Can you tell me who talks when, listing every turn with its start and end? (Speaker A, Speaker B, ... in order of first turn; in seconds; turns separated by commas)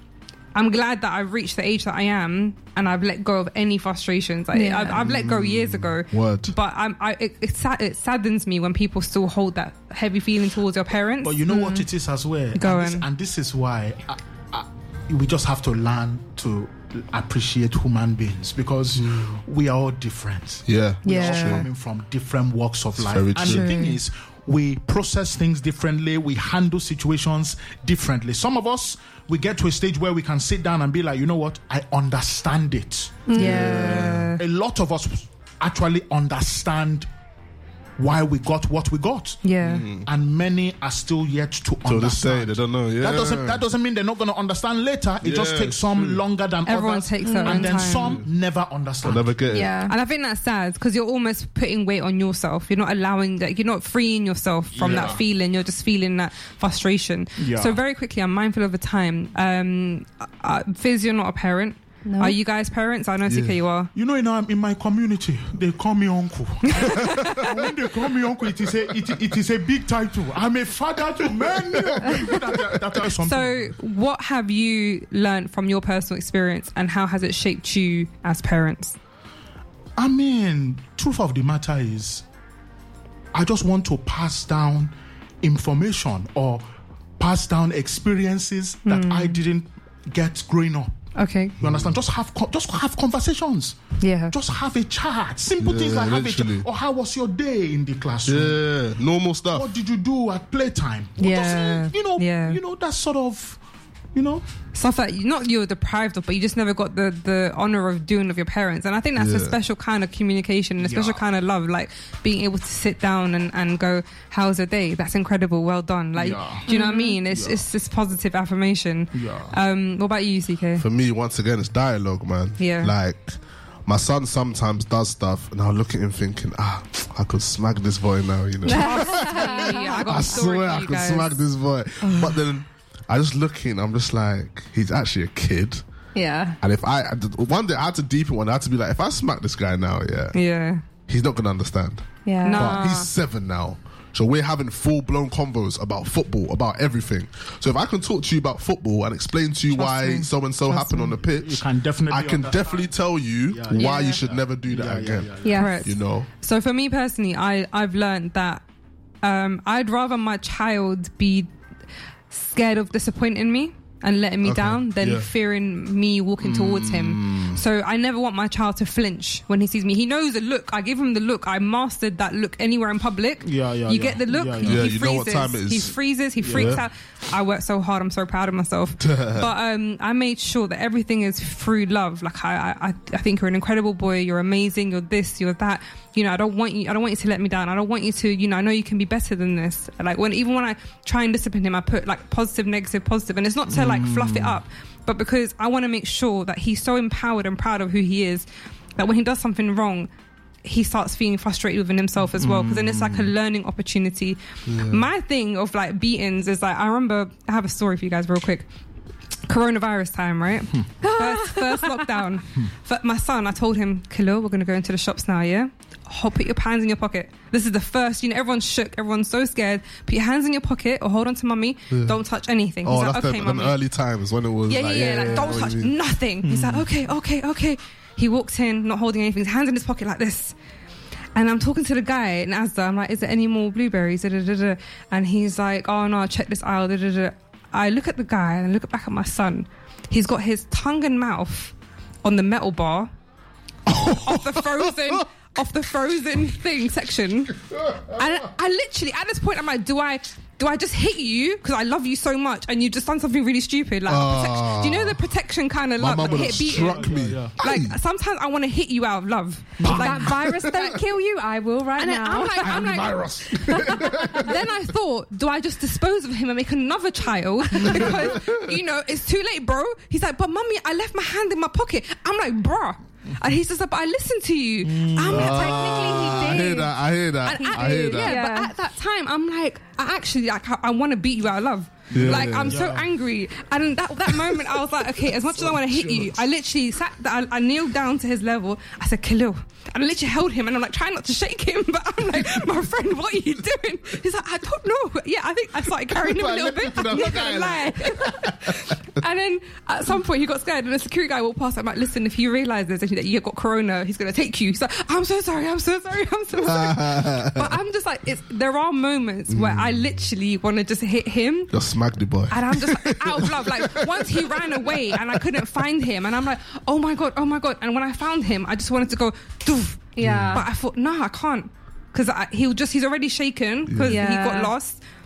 Speaker A: 0.5-11.8, Speaker B: 4.5-5.1, Speaker C: 5.0-6.5, Speaker D: 11.2-33.8, Speaker A: 12.5-13.1, Speaker C: 18.9-19.4, Speaker C: 20.6-21.7, Speaker A: 21.0-21.6, Speaker B: 21.1-21.5, Speaker C: 23.0-23.8, Speaker A: 23.4-23.9, Speaker B: 33.3-34.1, Speaker A: 33.3-34.4, Speaker C: 33.4-34.4, Speaker D: 34.4-37.1, Speaker D: 38.0-39.4, Speaker A: 39.4-39.9, Speaker C: 39.6-40.1, Speaker D: 40.0-49.3, Speaker C: 41.8-43.6, Speaker C: 45.2-46.2, Speaker A: 46.6-48.2, Speaker B: 47.2-47.7, Speaker C: 47.9-48.3, Speaker C: 49.0-49.8, Speaker B: 49.5-49.9, Speaker A: 49.9-63.9, Speaker D: 54.7-55.2, Speaker D: 57.4-57.8, Speaker B: 62.0-62.4, Speaker C: 63.2-63.5, Speaker D: 63.9-73.7, Speaker A: 66.7-67.5, Speaker C: 67.1-67.4, Speaker C: 71.7-72.5, Speaker A: 73.1-79.0, Speaker D: 80.0-82.2, Speaker D: 83.3-86.6, Speaker D: 87.2-90.9, Speaker A: 88.8-89.4, Speaker A: 91.2-91.5, Speaker C: 91.6-91.9, Speaker D: 91.6-93.8, Speaker A: 94.0-94.3, Speaker D: 94.3-98.6, Speaker C: 95.6-96.7, Speaker C: 98.2-99.7, Speaker D: 99.5-103.6, Speaker A: 101.2-102.6, Speaker D: 104.1-104.4, Speaker A: 104.7-120.8, Speaker C: 109.2-109.5, Speaker D: 110.8-111.2, Speaker D: 116.2-116.7, Speaker B: 116.7-117.2, Speaker D: 117.3-117.6, Speaker D: 119.1-119.5, Speaker C: 120.8-135.8, Speaker A: 122.6-122.9, Speaker A: 128.6-131.4, Speaker B: 128.7-130.0, Speaker A: 132.0-132.4, Speaker B: 136.1-136.6, Speaker C: 136.6-140.4, Speaker A: 140.3-140.8, Speaker C: 141.1-155.3, Speaker B: 142.2-142.8, Speaker A: 142.4-143.1, Speaker A: 149.7-150.9, Speaker D: 150.9-152.9, Speaker D: 153.5-155.6, Speaker A: 153.7-154.2, Speaker B: 155.4-155.9, Speaker A: 155.5-158.6, Speaker C: 155.8-156.3, Speaker A: 159.2-161.5, Speaker A: 162.3-198.4, Speaker C: 164.4-165.3, Speaker D: 166.4-167.5, Speaker D: 173.4-174.9, Speaker C: 174.6-176.8, Speaker D: 176.4-176.8, Speaker C: 179.0-179.5, Speaker D: 193.7-194.6, Speaker A: 199.0-200.1, Speaker A: 200.6-208.6, Speaker D: 202.3-203.3, Speaker C: 204.7-205.1, Speaker A: 209.5-223.8, Speaker B: 211.0-212.2, Speaker C: 221.9-222.2, Speaker C: 222.8-225.9, Speaker A: 224.7-230.5, Speaker D: 225.1-225.6, Speaker D: 226.4-226.9, Speaker A: 231.3-241.7, Speaker A: 242.2-243.1, Speaker C: 243.9-245.2, Speaker A: 244.1-260.4, Speaker C: 254.1-255.3, Speaker C: 256.0-257.9, Speaker D: 256.1-257.6, Speaker D: 259.8-260.1, Speaker C: 259.8-261.0, Speaker B: 259.9-262.9, Speaker A: 262.0-275.8, Speaker C: 262.6-264.7, Speaker D: 267.7-268.4, Speaker C: 267.8-268.8, Speaker D: 274.8-275.6, Speaker C: 275.2-278.4, Speaker B: 275.3-278.7, Speaker A: 277.4-311.7, Speaker D: 282.1-283.1, Speaker C: 282.1-282.9, Speaker C: 284.4-286.4, Speaker C: 296.1-298.9, Speaker C: 306.6-307.7, Speaker C: 309.5-309.9, Speaker C: 311.7-315.6, Speaker A: 312.5-325.0, Speaker B: 320.1-320.6, Speaker C: 320.2-320.6, Speaker C: 323.9-324.2, Speaker B: 324.0-324.7